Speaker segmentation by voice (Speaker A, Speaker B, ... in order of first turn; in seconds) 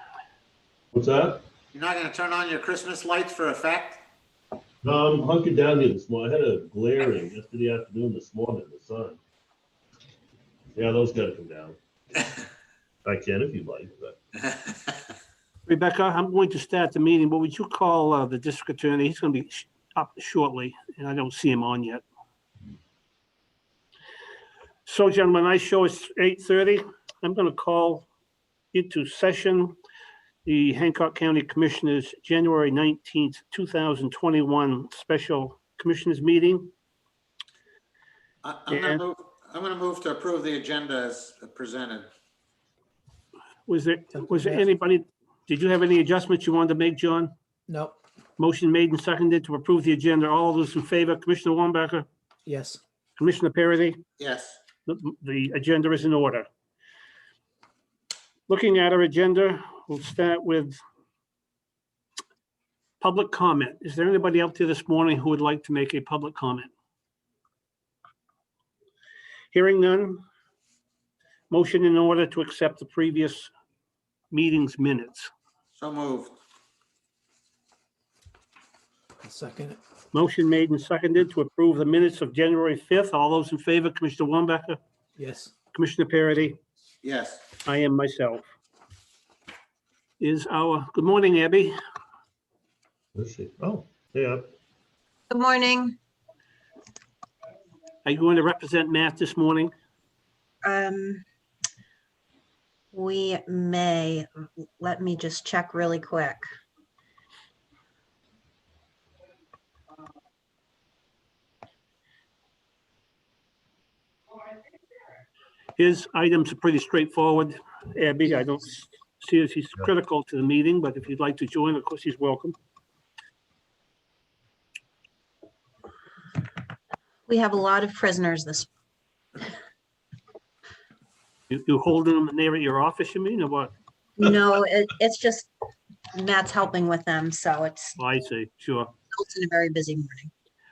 Speaker A: 0.9-1.4, 4.8-9.2, 10.7-12.3, 13.0-14.2, 93.1-94.5
Speaker B: 1.7-4.0, 38.4-42.1, 54.2-54.6, 75.8-76.4, 87.0-87.4
Speaker C: 15.7-22.0, 24.9-28.1, 28.7-29.8, 30.4-36.7, 38.7-39.0, 43.7-47.3, 48.4-52.0, 53.2-54.0, 54.9-56.5, 58.5-60.8, 63.0-66.7, 69.5-70.2, 71.5-73.5, 74.3-75.3, 80.1-84.8, 85.7-86.6, 87.6-88.5, 90.2-91.8, 98.0-99.7, 115.8-122.5, 131.5-133.7, 138.0-138.9
Speaker D: 44.1-44.7, 47.7-48.0, 52.5-52.8, 79.2-79.8, 85.2-85.5
Speaker E: 95.3-96.0, 100.6-101.2, 102.9-104.3, 104.8-106.4, 127.3-128.7, 134.2-135.5, 136.2-138.0, 139.1-140.3